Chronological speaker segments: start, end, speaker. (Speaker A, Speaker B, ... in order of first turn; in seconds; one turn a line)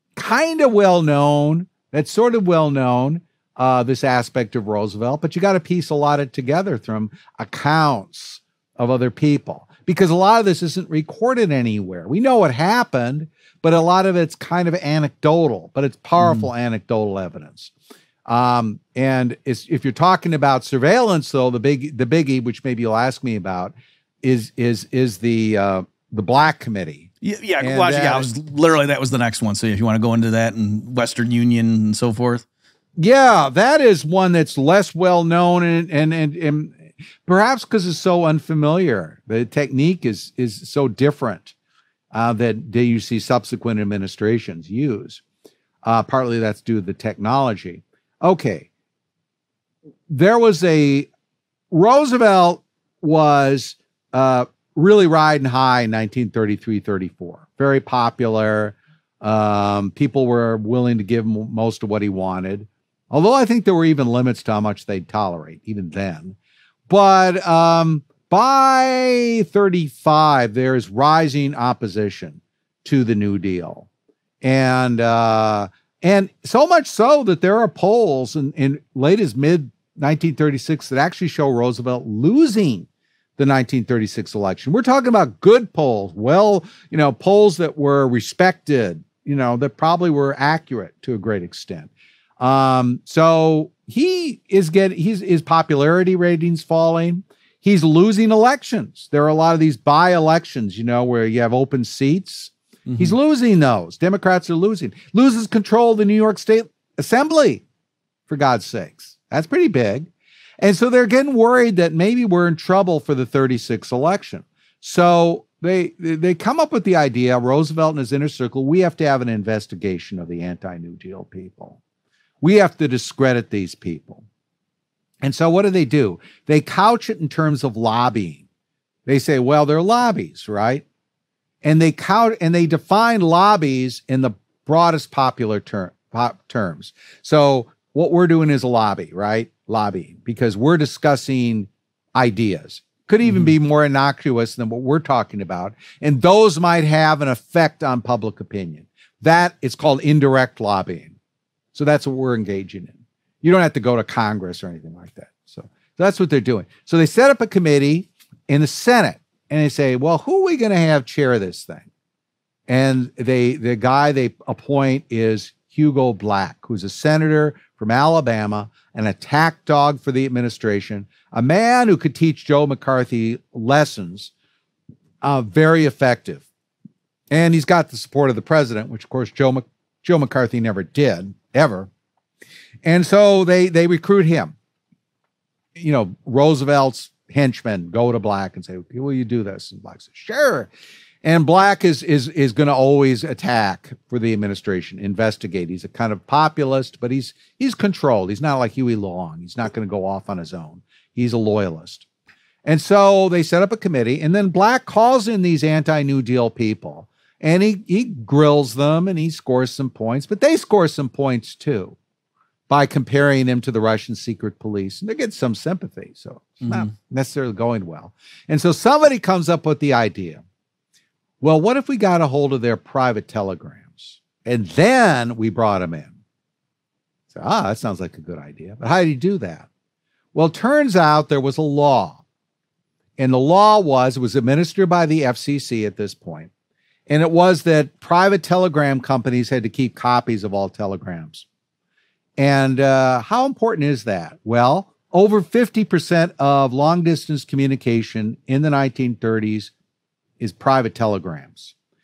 Speaker A: 0.2-17.7
Speaker B: 16.2-16.5
Speaker A: 18.3-27.1
Speaker B: 27.2-32.5
Speaker A: 27.6-28.3
Speaker A: 33.0-41.5
Speaker A: 42.1-45.2
Speaker A: 45.8-48.7
Speaker A: 50.1-51.1
Speaker A: 51.7-66.4
Speaker A: 66.9-73.9
Speaker A: 74.4-107.6
Speaker B: 102.9-103.2
Speaker A: 108.3-110.1
Speaker A: 110.6-121.8
Speaker A: 122.4-124.2
Speaker A: 125.2-128.4
Speaker A: 129.1-130.8
Speaker A: 131.6-151.2
Speaker B: 143.2-143.5
Speaker A: 151.7-161.9
Speaker A: 162.7-174.3
Speaker A: 175.2-176.4
Speaker A: 177.3-181.9
Speaker A: 182.8-184.6
Speaker A: 185.8-190.7
Speaker A: 191.2-202.1
Speaker A: 202.7-212.0
Speaker A: 212.7-220.4
Speaker B: 216.6-216.9
Speaker A: 221.4-226.1
Speaker A: 227.3-229.7
Speaker A: 230.3-232.2
Speaker A: 233.2-236.5
Speaker A: 237.1-241.4
Speaker A: 242.4-249.7
Speaker A: 250.4-251.7